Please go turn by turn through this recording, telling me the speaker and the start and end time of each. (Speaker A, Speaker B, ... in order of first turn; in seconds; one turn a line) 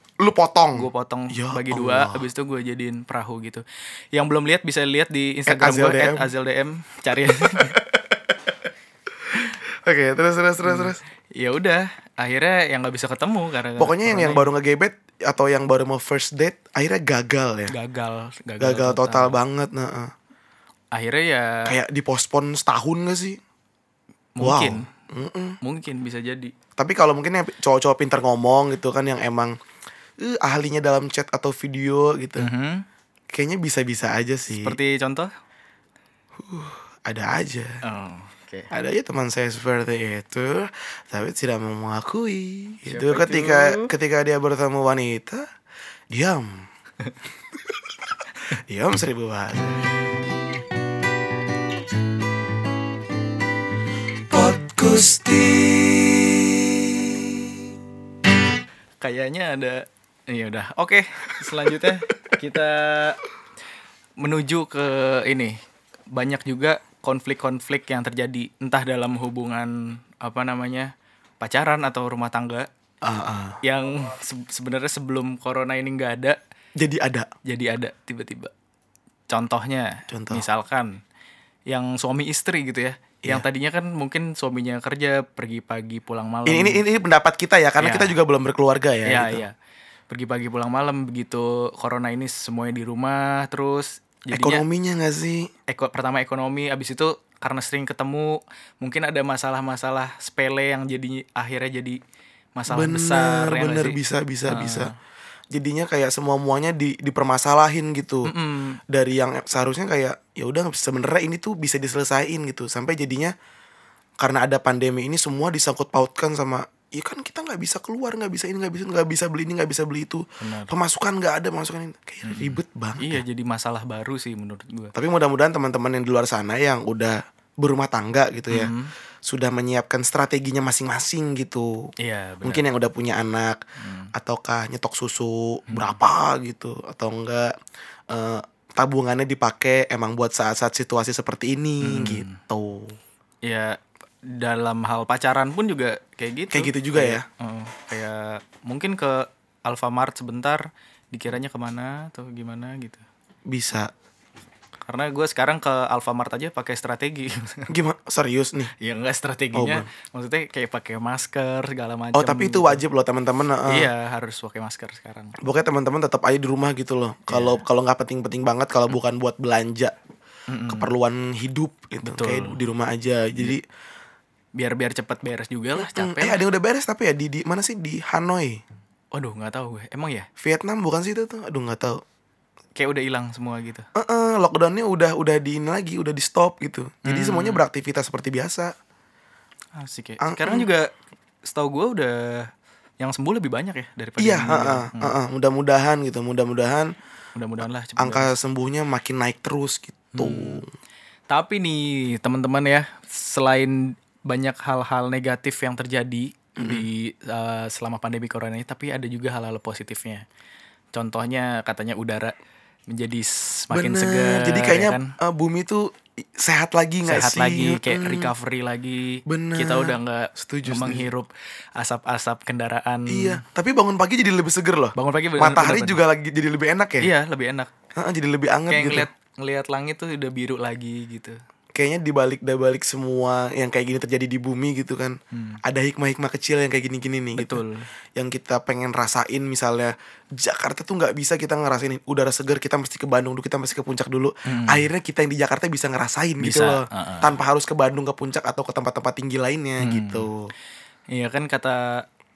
Speaker A: 0.2-2.3
Speaker B: 0.7-7.8
Speaker A: 5.5-6.3
Speaker A: 7.5-8.4
Speaker A: 9.3-11.0
Speaker B: 10.6-14.5
Speaker A: 13.8-17.7
Speaker B: 17.7-19.4
Speaker A: 18.6-20.1
Speaker B: 20.9-21.7
Speaker A: 21.6-23.4
Speaker B: 24.4-24.9
Speaker A: 24.4-25.6
Speaker B: 25.6-26.5
Speaker A: 26.8-29.5
Speaker A: 30.2-32.5
Speaker B: 32.4-32.8
Speaker A: 33.3-34.8
Speaker B: 34.5-35.3
Speaker A: 36.4-37.8
Speaker B: 37.8-38.7
Speaker A: 38.7-45.5
Speaker B: 42.9-43.9
Speaker A: 46.1-46.7
Speaker A: 48.5-49.9
Speaker A: 54.2-57.6
Speaker B: 59.0-63.2
Speaker B: 64.2-65.5
Speaker B: 66.1-72.7
Speaker A: 73.0-73.6
Speaker B: 73.6-76.4
Speaker A: 76.8-77.3
Speaker B: 77.5-78.5
Speaker B: 79.3-81.0
Speaker A: 80.1-80.4
Speaker B: 81.7-86.8
Speaker A: 86.5-89.4
Speaker B: 87.8-88.2
Speaker B: 89.0-89.5
Speaker B: 90.1-94.6
Speaker A: 94.3-95.5
Speaker B: 95.7-102.0
Speaker B: 102.5-104.9
Speaker A: 102.7-104.9
Speaker A: 105.5-108.3
Speaker B: 108.2-108.8
Speaker A: 108.9-113.3
Speaker A: 114.2-123.2
Speaker B: 120.4-120.7
Speaker B: 122.2-124.9
Speaker A: 124.9-128.7
Speaker B: 128.5-128.9
Speaker A: 129.2-131.9
Speaker B: 132.0-132.6
Speaker A: 132.4-133.6
Speaker B: 133.8-134.1
Speaker A: 134.1-137.6
Speaker B: 135.7-136.0
Speaker A: 138.1-143.0
Speaker B: 141.8-142.4
Speaker B: 143.4-153.0
Speaker A: 146.5-147.2
Speaker A: 153.5-153.9
Speaker B: 154.9-157.7
Speaker A: 157.7-158.7
Speaker B: 158.8-162.8
Speaker A: 159.5-159.9
Speaker A: 162.1-163.9
Speaker B: 163.7-165.3
Speaker A: 165.4-169.9
Speaker B: 167.3-167.6
Speaker B: 170.5-170.9
Speaker A: 170.7-173.6
Speaker B: 172.0-172.6
Speaker B: 174.6-176.4
Speaker A: 175.8-178.6
Speaker B: 179.1-180.3
Speaker A: 180.4-182.0
Speaker B: 182.8-183.8
Speaker A: 183.9-188.7
Speaker B: 187.0-187.6
Speaker B: 189.8-190.9
Speaker A: 190.2-190.7
Speaker B: 191.4-195.1
Speaker A: 194.2-196.9
Speaker B: 197.3-198.3
Speaker A: 198.0-200.7
Speaker B: 200.1-200.6
Speaker B: 201.3-210.2
Speaker A: 206.6-206.9
Speaker B: 210.9-212.3
Speaker B: 212.9-215.1
Speaker A: 213.7-218.3
Speaker B: 217.0-223.4
Speaker A: 219.3-221.1
Speaker A: 223.1-227.1
Speaker B: 224.9-226.0
Speaker B: 227.0-227.7
Speaker A: 227.9-229.1
Speaker B: 228.7-231.4
Speaker A: 231.7-237.6
Speaker B: 235.3-235.6
Speaker B: 237.3-237.8
Speaker A: 238.2-250.5
Speaker B: 244.4-244.9
Speaker B: 246.4-247.3
Speaker B: 249.8-250.3
Speaker B: 251.1-252.0